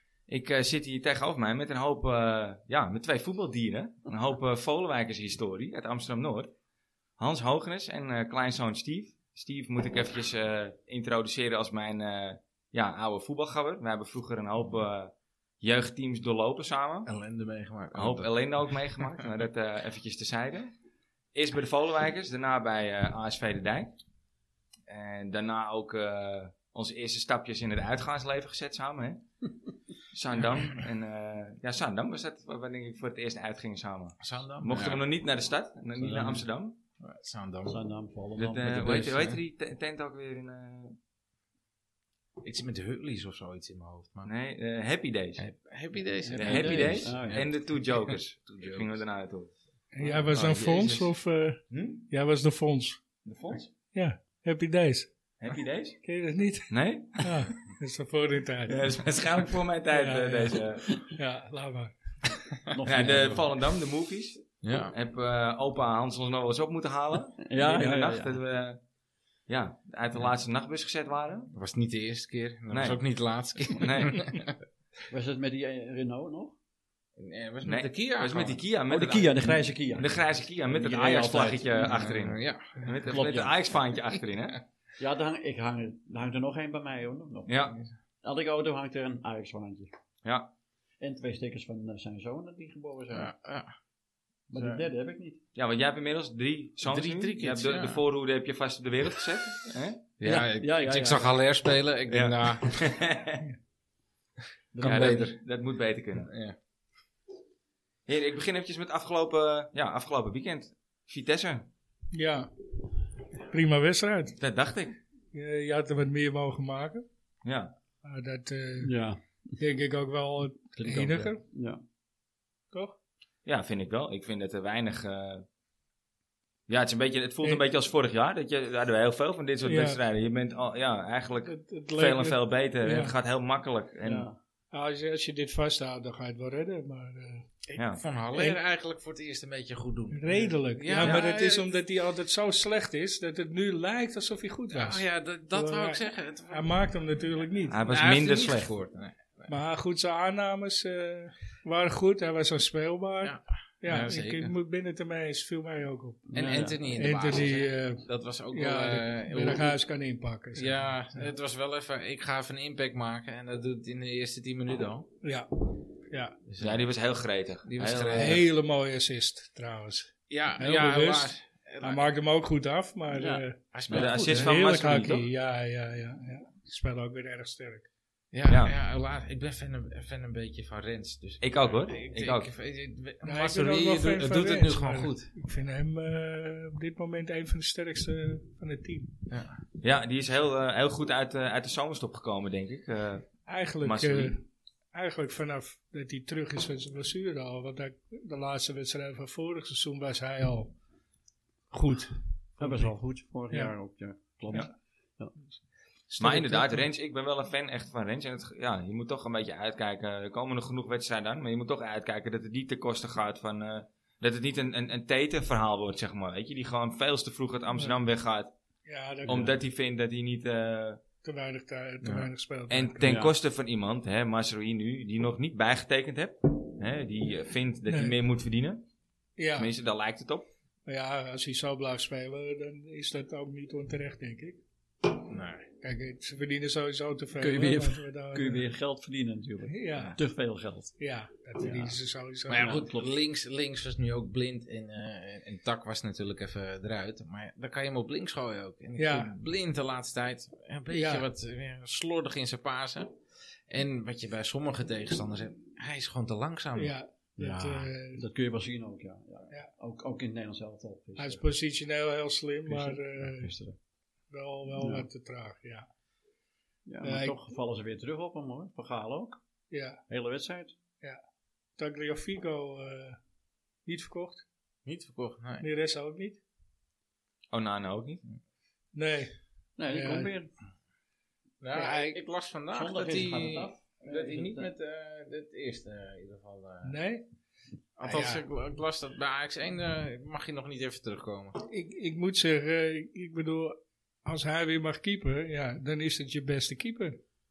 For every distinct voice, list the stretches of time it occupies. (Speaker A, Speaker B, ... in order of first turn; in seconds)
Speaker A: 0.3-6.5, 7.2-17.1, 17.9-20.7, 21.3-23.9, 24.9-29.2, 30.1-36.8, 38.4-41.0, 44.2-45.4, 46.3-49.5, 50.3-51.1, 51.7-52.0, 53.2-53.7, 55.4-56.0, 56.7-57.4, 58.7-60.9, 62.8-68.8, 69.5-71.5, 72.7-73.0, 73.7-74.2, 77.6-84.6, 87.5-87.8, 90.2-90.5, 95.5-100.1, 102.1-103.5, 104.7-106.3, 108.0-111.7, 114.4-115.0, 117.4-117.7, 123.4-125.4, 126.7-134.3, 137.7-138.0, 141.0-141.2, 147.7-148.7, 166.6-168.4, 173.9-175.2, 178.5-178.7, 181.4-182.5, 189.8-194.4, 206.2-218.5, 219.2-221.0, 222.7-228.8, 229.6-230.5, 277.5-278.2
Speaker B: 17.1-18.3, 34.2-35.0, 37.0-37.8, 38.6-39.4, 42.4-44.3, 45.4-49.0, 50.0-50.5, 64.6-64.9, 71.5-74.5, 77.2-78.6, 81.8-83.3, 93.1-93.7, 94.5-94.8, 96.8-98.0, 100.2-102.8, 104.8-105.4, 106.2-106.5, 137.7-141.7, 144.7-147.2, 147.8-149.5, 153.2-154.5, 156.3-159.8, 160.5-165.1, 166.5-166.8, 167.6-168.4, 170.3-172.1, 173.7-174.5, 178.3-185.3, 189.3-189.6, 222.0-222.3, 235.3-235.7, 242.5-253.1, 253.7-256.9, 274.8-275.7, 281.6-287.0, 288.0-291.6
Speaker C: 36.0-36.5, 37.6-38.9, 46.3-47.4, 62.7-63.4, 67.4-68.4, 75.1-76.6, 78.9-82.2, 83.0-83.5, 85.0-87.5, 88.2-89.9, 91.0-93.3, 94.5-95.4, 100.2-101.3, 104.7-105.2, 118.8-119.2, 120.8-121.8, 134.0-134.4, 156.3-156.8, 173.1-174.1, 202.6-205.3, 223.0-223.3, 237.3-240.9, 241.6-241.9, 242.5-243.1, 257.4-261.4, 262.7-263.8, 264.8-265.1, 266.9-269.4, 270.1-270.7, 279.8-280.5, 282.7-284.7
Speaker D: 49.9-53.0, 53.9-55.1, 56.0-59.0, 59.9-62.0, 112.1-112.5, 113.5-114.4, 115.3-117.0, 118.0-118.9, 119.6-121.4, 122.7-123.0, 129.6-130.0, 131.4-133.1, 134.7-137.4, 138.3-138.6, 140.1-147.8, 149.5-156.3, 156.9-161.3, 165.2-165.5, 166.1-166.3, 168.1-173.6, 174.1-177.9, 183.2-189.1, 193.4-200.7, 201.7-203.0, 206.2-206.7, 218.8-219.5, 221.2-223.1, 229.4-229.7, 230.9-234.6, 235.8-238.6, 239.6-240.2, 241.0-242.8, 249.0-249.3, 250.9-251.2, 256.8-258.2, 261.1-263.5, 264.3-265.9, 267.0-267.3, 269.7-270.0, 271.8-273.2, 273.8-274.4, 275.6-276.4, 278.9-279.3, 279.9-280.3, 281.7-282.2, 286.8-287.2, 288.0-288.4, 291.7-297.2